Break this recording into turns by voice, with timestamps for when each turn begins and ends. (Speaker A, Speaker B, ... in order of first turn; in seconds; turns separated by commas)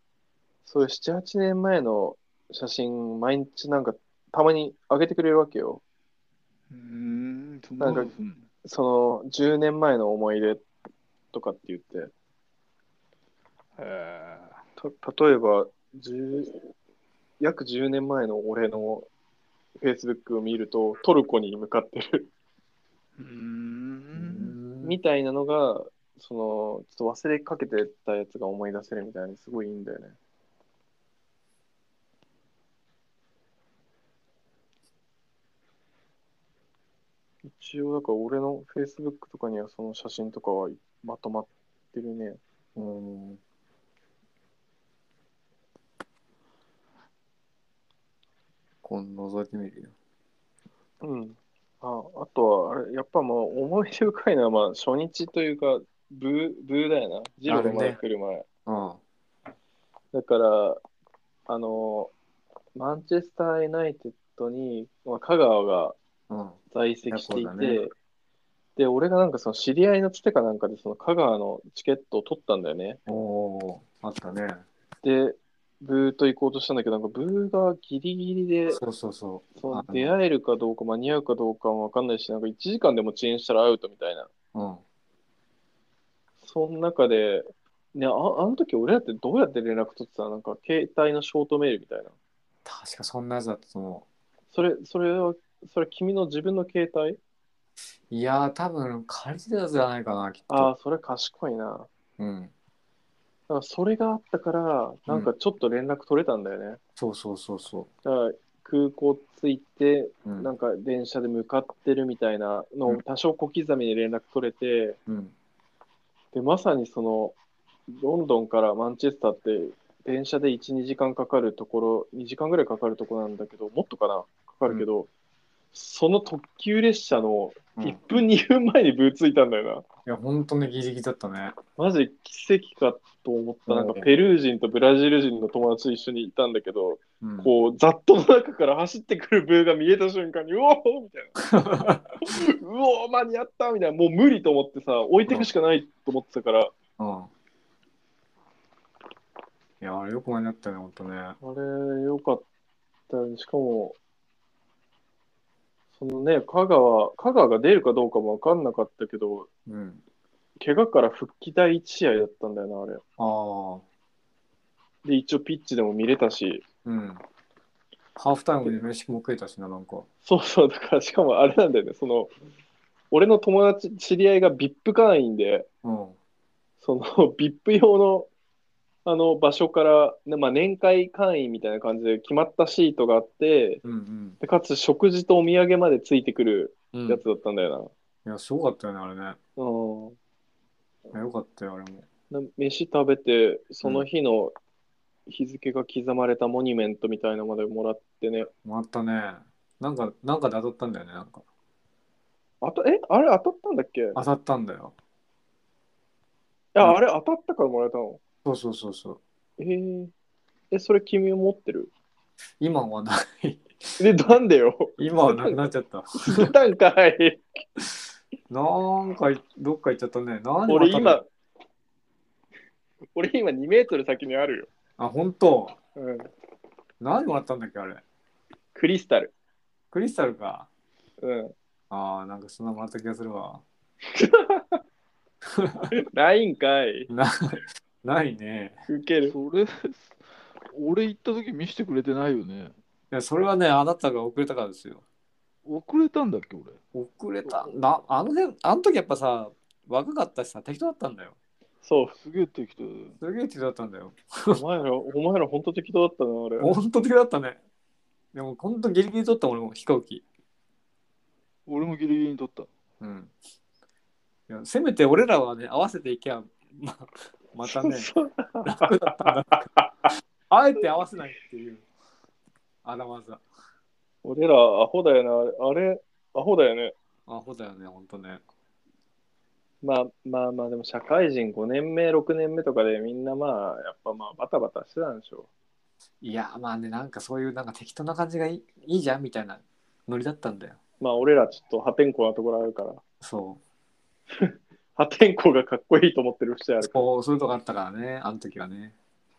Speaker A: 0.6-5.8, Speaker B: 6.7-8.4, Speaker A: 7.8-8.1, Speaker A: 8.6-10.6, Speaker A: 11.3-12.1, Speaker B: 13.8-14.6, Speaker A: 14.8-16.7, Speaker A: 17.4-19.1, Speaker A: 19.8-22.3, Speaker B: 23.2-24.6, Speaker C: 24.1-25.0, Speaker A: 24.8-30.1, Speaker A: 37.4-42.4, Speaker C: 42.8-43.4, Speaker C: 48.8-49.9, Speaker A: 51.0-58.4, Speaker C: 57.5-58.0, Speaker C: 58.6-59.0, Speaker A: 60.1-60.8, Speaker A: 61.5-62.1, Speaker A: 62.8-66.0, Speaker C: 66.3-67.8, Speaker A: 66.7-67.9, Speaker A: 68.8-73.0, Speaker C: 73.1-74.7, Speaker A: 75.0-78.8, Speaker C: 78.7-80.1, Speaker A: 79.6-84.3, Speaker C: 84.5-84.8, Speaker A: 86.4-92.1, Speaker C: 92.6-94.0, Speaker A: 94.5-97.2, Speaker C: 98.1-100.7, Speaker A: 100.5-101.9, Speaker C: 102.2-102.5, Speaker A: 103.5-106.8, Speaker C: 107.0-107.9, Speaker A: 108.0-115.0, Speaker C: 115.1-115.3, Speaker A: 116.3-117.3, Speaker A: 117.9-125.1, Speaker A: 125.7-129.8, Speaker C: 130.0-131.6, Speaker A: 131.8-141.3, Speaker C: 133.7-134.1, Speaker C: 137.2-137.5, Speaker C: 141.4-142.2, Speaker A: 142.2-146.7, Speaker C: 147.0-147.3, Speaker C: 149.8-151.4, Speaker A: 151.4-152.4, Speaker A: 153.1-153.9, Speaker A: 156.0-159.5, Speaker C: 159.7-160.0, Speaker A: 160.6-163.0, Speaker C: 163.2-163.8, Speaker A: 165.0-166.6, Speaker C: 166.8-167.2, Speaker C: 168.2-170.1, Speaker A: 170.2-172.3, Speaker A: 173.1-175.7, Speaker C: 175.8-176.2, Speaker A: 176.8-178.3, Speaker A: 179.0-183.8, Speaker C: 183.8-184.4, Speaker A: 184.4-187.9, Speaker C: 186.9-187.2, Speaker C: 188.2-189.4, Speaker A: 189.6-190.2, Speaker C: 191.1-192.1, Speaker A: 192.3-194.5, Speaker A: 195.3-198.5, Speaker C: 198.6-201.4, Speaker A: 202.6-204.2, Speaker C: 204.1-204.9, Speaker A: 206.7-208.2, Speaker C: 208.4-209.2, Speaker A: 209.6-210.1, Speaker A: 210.7-211.9, Speaker C: 212.6-214.0, Speaker A: 214.0-215.7, Speaker C: 215.0-216.5, Speaker A: 216.3-217.4, Speaker C: 218.5-221.2, Speaker A: 220.7-221.3, Speaker A: 223.1-224.7, Speaker C: 225.0-225.8, Speaker A: 225.9-226.3, Speaker C: 227.0-228.0, Speaker A: 228.7-229.3, Speaker C: 229.9-230.7, Speaker A: 231.2-231.5, Speaker C: 231.9-233.6, Speaker A: 234.1-234.8, Speaker C: 235.6-235.9, Speaker A: 236.0-237.1, Speaker C: 237.1-238.8, Speaker A: 238.9-239.3, Speaker B: 239.3-240.2, Speaker B: 240.7-242.7, Speaker C: 243.1-245.0, Speaker B: 245.6-246.8, Speaker C: 246.9-251.3, Speaker A: 251.8-252.1, Speaker B: 252.1-253.1, Speaker C: 253.2-254.6, Speaker A: 254.5-256.7, Speaker C: 256.6-257.6, Speaker C: 258.3-260.2, Speaker B: 261.7-262.7, Speaker C: 263.0-263.3, Speaker C: 264.5-268.1, Speaker A: 267.6-269.8, Speaker C: 268.6-269.7, Speaker C: 270.5-271.8, Speaker C: 272.8-273.4, Speaker A: 274.2-276.9, Speaker C: 277.3-278.4, Speaker A: 279.8-285.5, Speaker C: 286.2-290.8, Speaker A: 291.0-293.0, Speaker C: 293.2-293.6, Speaker A: 294.3-296.9, Speaker C: 296.8-298.9